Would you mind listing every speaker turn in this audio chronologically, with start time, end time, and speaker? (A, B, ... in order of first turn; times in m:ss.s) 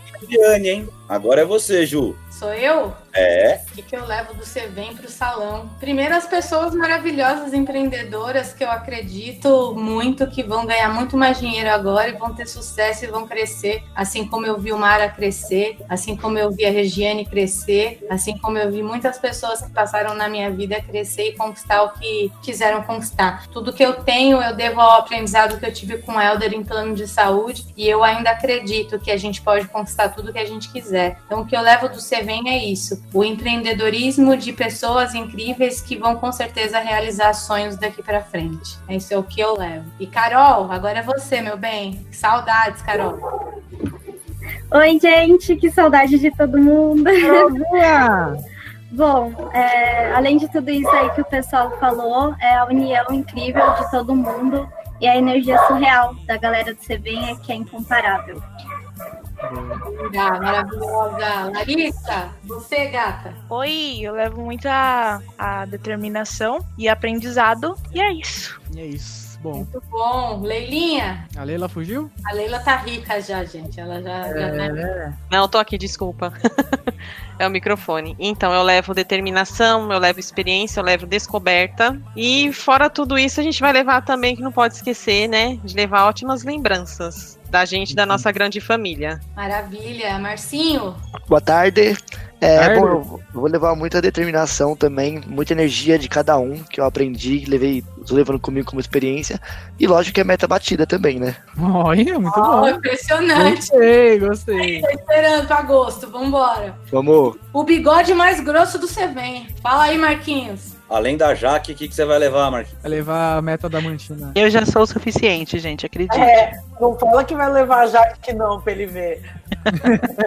0:00.2-0:02.2 A
0:02.3-0:03.0 B
0:03.1-0:03.6 A
0:03.6-0:43.2 B
0:44.7-0:47.5 C
0:47.2-0:48.4 D
0:48.9-0:58.4 C
0:59.4-0:59.8 D
0:59.9-1:03.4 B
1:03.5-1:08.6 E
1:08.7-1:09.7 D
1:09.6-1:11.3 B
1:11.4-1:12.1 D
1:12.2-1:14.8 B
1:14.2-1:15.2 D
1:15.3-1:16.3 F
1:17.4-1:29.2 F
1:27.9-1:28.2 D
1:29.4-1:31.0 B
1:31.3-1:41.4 G
1:32.6-1:32.9 D
1:41.6-1:42.8 D
1:42.3-1:43.6 B
1:43.3-1:44.9 D
1:44.6-1:46.8 B
1:46.9-1:47.4 G
1:47.5-1:50.7 B
1:50.9-1:52.8 A
1:52.8-1:54.4 D
1:54.4-1:56.5 H
1:56.1-1:59.2 I